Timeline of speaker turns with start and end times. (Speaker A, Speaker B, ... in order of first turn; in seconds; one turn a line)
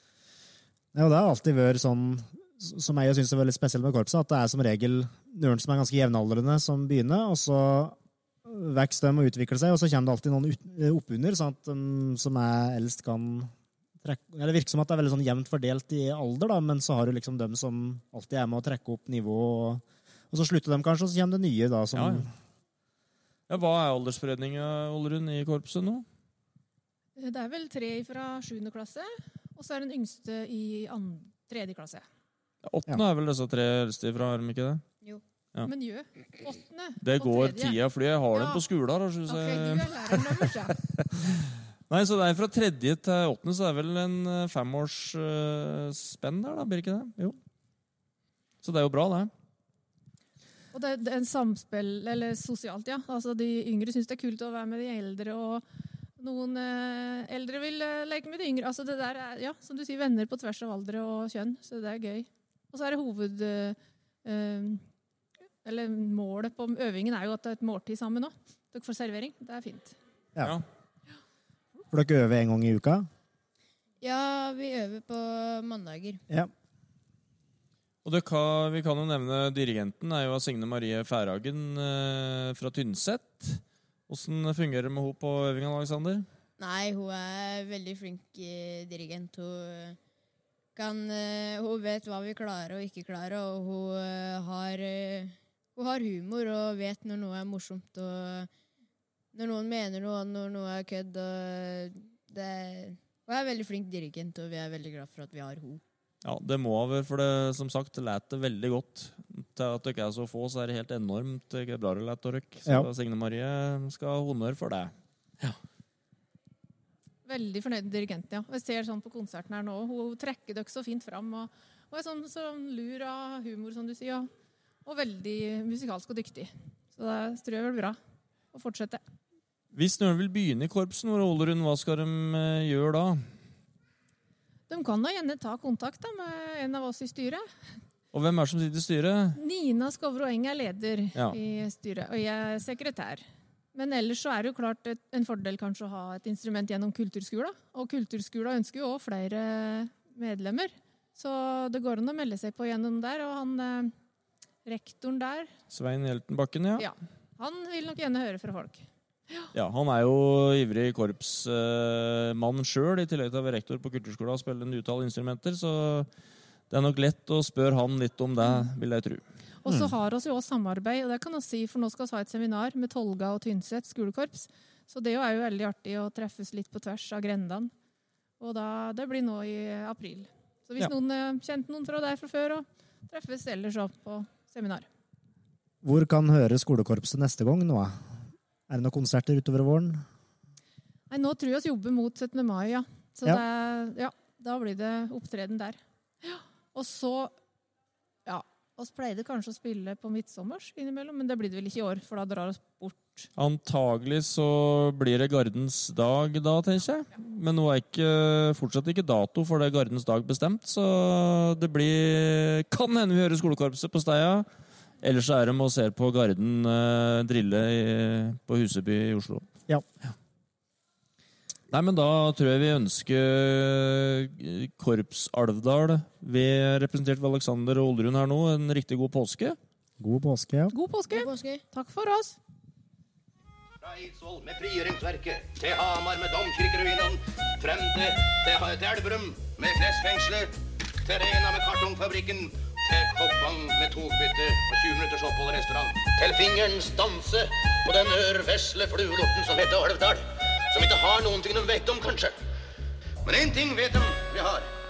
Speaker A: 0.9-22.3
Speaker B: 21.9-22.2
Speaker B: 23.5-26.1
Speaker C: 27.2-32.0
Speaker B: 32.6-34.8
Speaker C: 35.6-37.8
Speaker B: 37.0-47.4
Speaker C: 38.3-38.6
Speaker C: 39.3-40.8
Speaker B: 48.6-49.3
Speaker C: 50.7-55.6
Speaker C: 56.2-64.8
Speaker C: 65.6-70.0
Speaker A: 71.9-73.1
Speaker D: 74.0-76.2
Speaker B: 78.0-86.3
Speaker D: 86.6-90.0
Speaker D: 90.7-98.5
Speaker D: 99.3-105.8
Speaker B: 106.2-115.6
Speaker C: 117.2-124.3
Speaker C: 124.8-128.0
Speaker C: 128.5-129.0
Speaker B: 129.7-133.3
Speaker C: 134.7-137.5
Speaker B: 138.1-139.4
Speaker C: 139.3-153.9
Speaker C: 154.6-155.5
Speaker B: 155.7-156.9
Speaker C: 156.8-159.5
Speaker B: 159.5-166.1
Speaker B: 166.7-169.9
Speaker C: 169.6-177.7
Speaker C: 178.4-184.9
Speaker A: 185.8-190.0
Speaker C: 191.1-197.3
Speaker C: 198.2-203.3
Speaker B: 203.4-214.5
Speaker B: 215.0-219.5
Speaker B: 221.7-229.6
Speaker A: 230.0-230.7
Speaker C: 230.7-232.4
Speaker D: 231.1-231.6
Speaker E: 233.8-252.4
Speaker E: 253.2-254.7